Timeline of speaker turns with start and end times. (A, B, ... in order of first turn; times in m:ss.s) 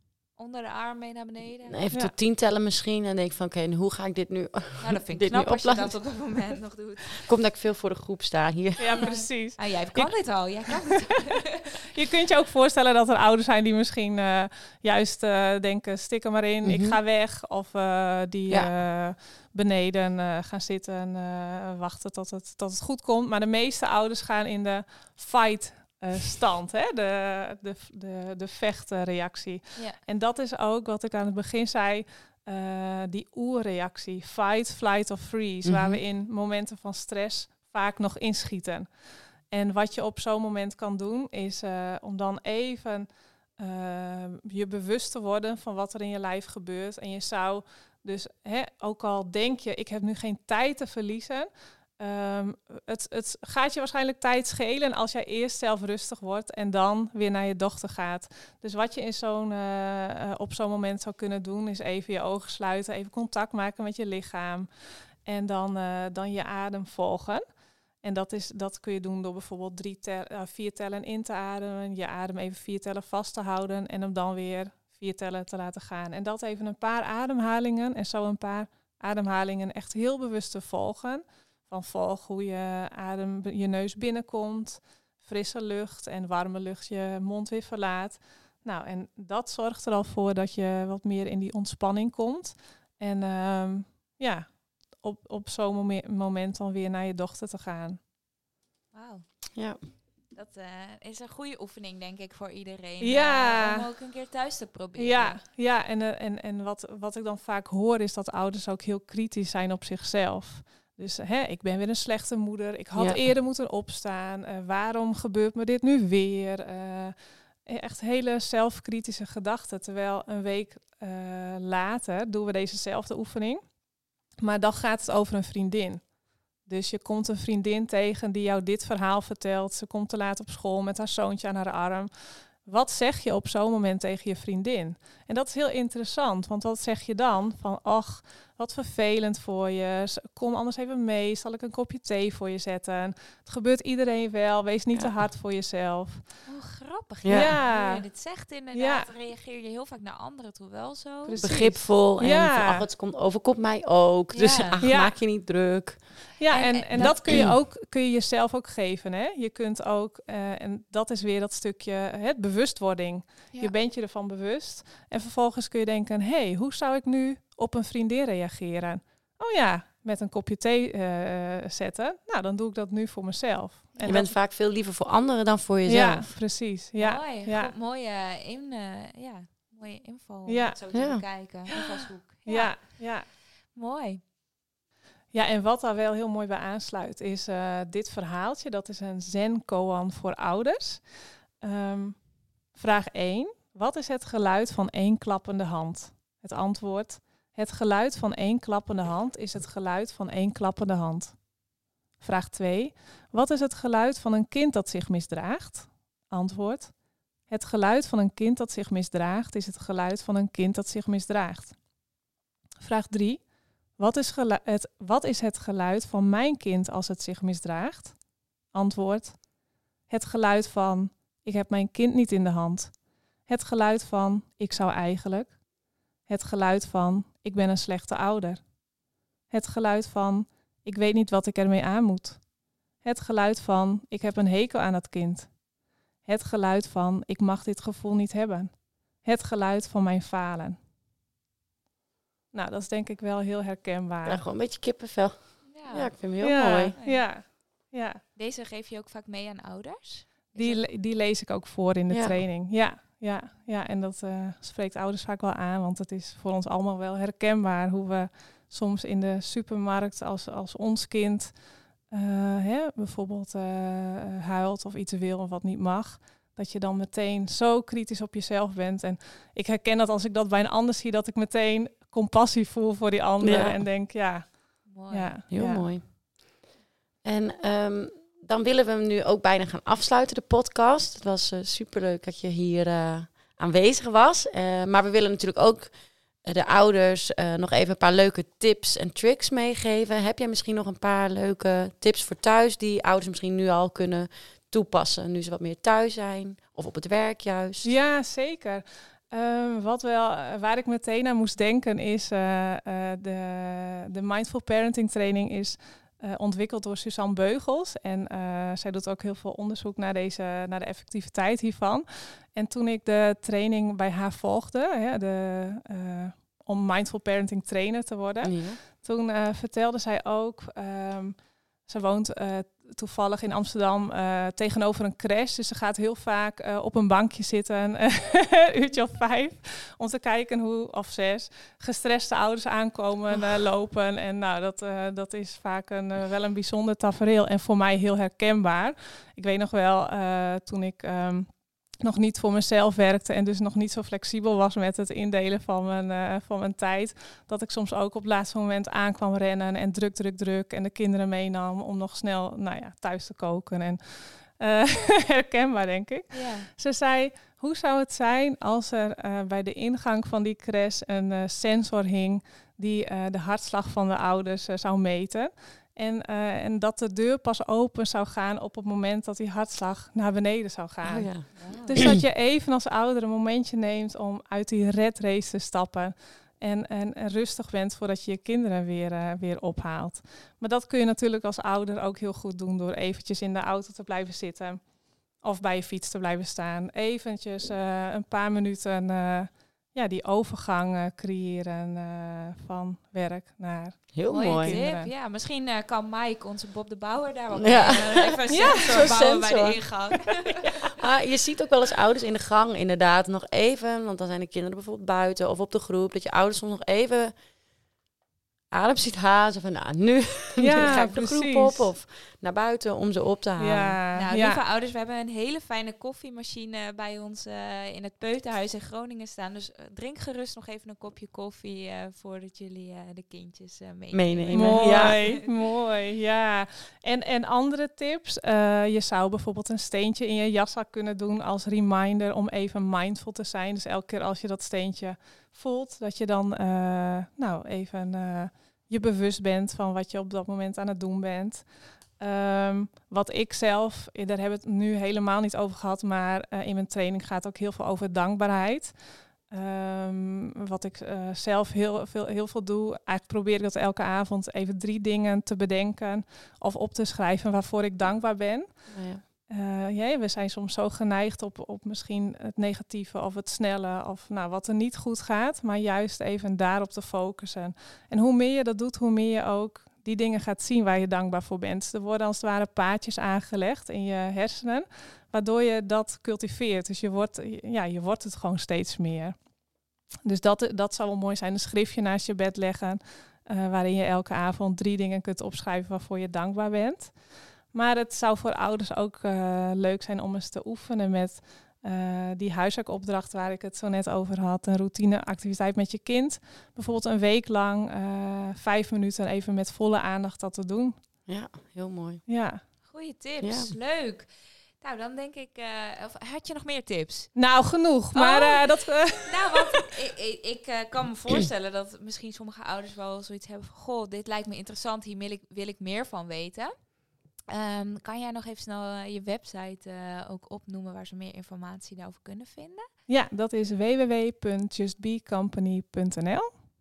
0:00.4-0:01.8 A
0:01.7-0:06.3 B
0:04.8-0:07.3 A
0:07.1-0:09.3 B
0:08.8-0:10.2 C
0:09.0-0:11.8 A
0:11.9-0:38.9 C
0:16.6-0:17.0 B
0:35.6-0:36.0 B
0:39.5-1:04.7 C
1:05.2-1:07.4 C
1:08.0-1:38.0 C
1:38.9-1:39.2 A
1:40.4-1:45.4 A
1:43.0-1:43.9 C
1:45.0-2:03.6 C
1:53.0-1:53.2 B
2:04.4-2:06.0 C
2:06.6-2:26.3 C
2:26.5-2:31.6 A
2:27.2-2:27.6 B
2:27.3-2:28.1 C
2:28.7-2:29.1 C
2:31.2-2:32.9 C
2:31.4-2:36.0 B
2:34.3-2:34.8 A
2:34.8-2:35.2 C
2:36.4-2:54.4 C
2:36.5-2:37.2 A
2:37.0-2:37.6 B
2:54.0-2:54.2 A
2:54.0-2:56.4 B
2:55.9-2:57.7 C
2:57.0-3:04.2 A
3:00.5-3:00.8 C
3:00.9-3:01.2 B
3:02.4-3:03.3 C
3:05.3-3:11.0 C
3:11.6-3:21.4 C
3:22.2-3:26.9 C
3:27.5-3:31.8 C
3:32.8-3:33.4 C
3:34.0-3:38.2 C
3:38.7-3:39.4 C
3:40.1-3:45.6 C
3:46.3-3:48.7 C
3:49.5-3:52.4 C
3:53.0-3:55.5 C
3:56.2-4:00.8 C
4:02.5-4:04.4 C
4:04.2-4:07.0 B
4:05.7-4:06.4 A
4:06.4-4:08.2 C
4:07.0-4:07.3 A
4:08.4-4:10.9 A
4:10.6-4:35.9 C
4:12.1-4:12.4 B
4:33.4-4:33.8 B
4:34.9-4:35.4 A
4:35.5-4:36.1 B
4:37.2-4:57.9 B
4:57.8-6:24.8 C
5:18.4-5:18.8 B
5:56.3-5:56.7 A
6:11.0-6:12.2 B
6:11.6-6:12.0 A
6:25.4-6:35.1 C
6:34.1-6:34.8 B
6:34.3-6:40.6 A
6:37.6-6:39.9 B
6:38.5-6:39.1 C
6:41.0-6:47.4 B
6:48.7-6:54.0 B
6:50.6-6:51.9 C
6:50.8-6:51.1 A
6:53.6-6:54.6 C
6:54.1-7:05.4 A
7:04.1-7:05.2 B
7:04.5-7:21.7 C
7:22.2-7:29.0 C
7:29.5-7:59.4 C
7:38.9-7:39.2 B
8:00.2-8:07.1 C
8:07.7-8:21.0 C
8:21.3-8:22.2 B
8:22.3-8:22.6 C
8:22.9-8:24.3 A
8:23.4-8:23.7 B
8:24.8-8:27.4 A
8:27.4-8:29.9 C
8:28.1-8:36.9 A
8:37.5-8:42.9 A
8:43.1-8:46.5 C